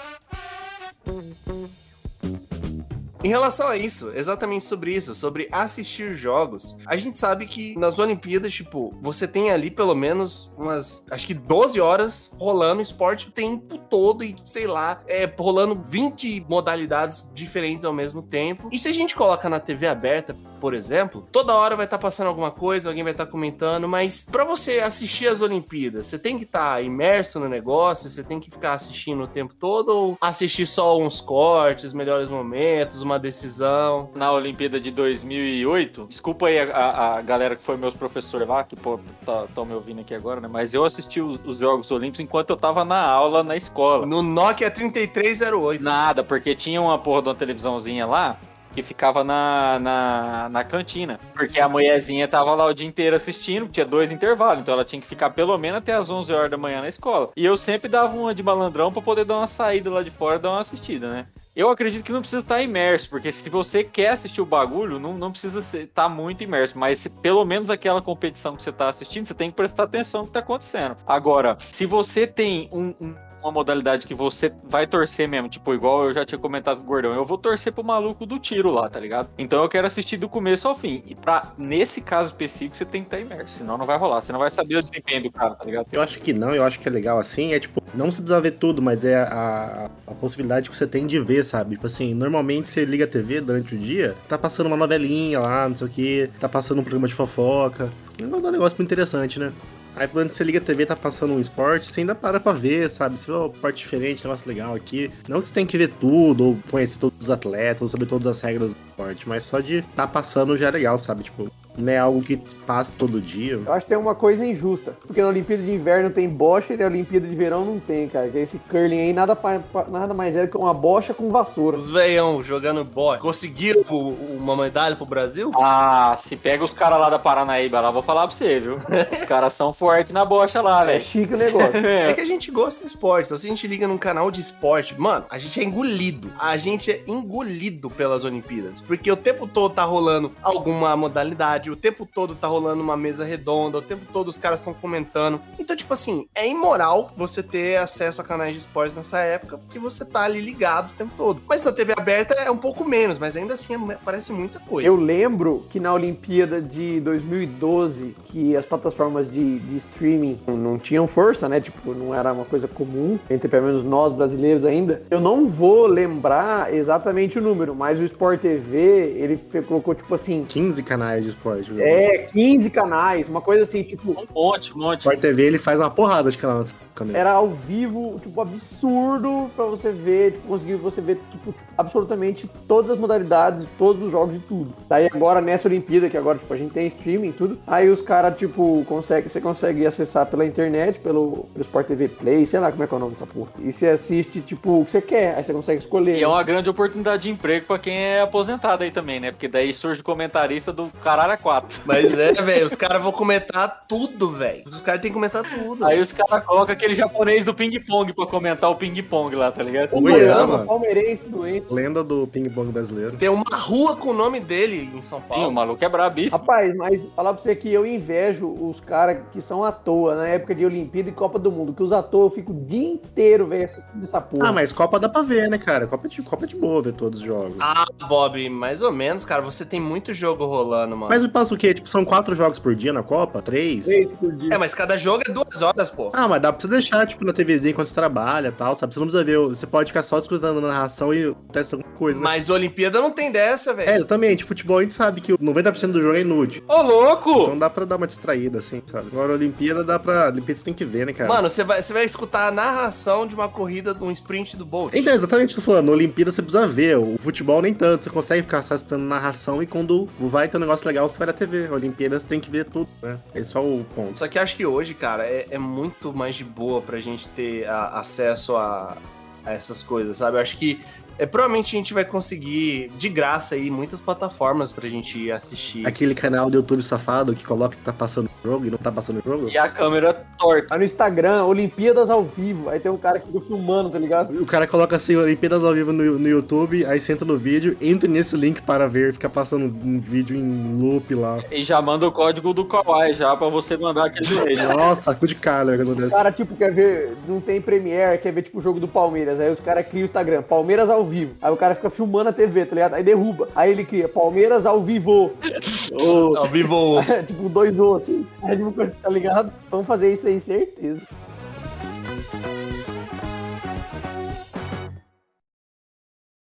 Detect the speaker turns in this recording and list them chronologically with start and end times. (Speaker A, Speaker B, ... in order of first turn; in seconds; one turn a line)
Speaker A: 3.2-34.1
Speaker B: 34.1-44.1
Speaker A: 44.0-45.9
Speaker B: 45.8-85.9
Speaker C: 85.9-113.7
Speaker D: 113.7-121.8
Speaker A: 121.7-125.6
Speaker B: 125.5-131.1
Speaker A: 128.9-129.3
Speaker D: 130.8-131.8
Speaker A: 131.6-155.0
Speaker B: 131.7-132.2
Speaker D: 154.8-170.5
Speaker C: 170.5-172.1
Speaker D: 171.8-174.2
Speaker B: 174.2-175.2
Speaker C: 175.0-177.2
Speaker D: 177.1-196.4
Speaker B: 196.1-201.9
Speaker A: 201.9-206.0
Speaker B: 205.8-210.6
Speaker D: 209.9-211.7
Speaker C: 210.0-210.7
Speaker C: 211.7-213.2
Speaker A: 213.2-215.6
Speaker B: 215.3-216.5
Speaker D: 216.3-224.6
Speaker C: 224.4-227.7
Speaker A: 227.6-231.2
Speaker C: 231.1-234.0
Speaker D: 233.8-234.6
Speaker A: 234.5-236.2
Speaker C: 236.1-242.3
Speaker A: 242.1-244.0
Speaker C: 243.8-246.6
Speaker B: 246.7-247.6
Speaker C: 247.3-251.4
Speaker A: 251.2-255.1
Speaker C: 254.9-264.2
Speaker A: 264.1-275.9
Speaker C: 275.8-279.6
Speaker B: 279.5-280.7
Speaker D: 280.7-284.3
Speaker C: 284.3-291.5
Speaker B: 291.5-294.8
Speaker C: 294.2-296.3
Speaker D: 296.1-305.4
Speaker B: 305.5-306.7
Speaker A: 306.2-307.1
Speaker D: 306.9-311.1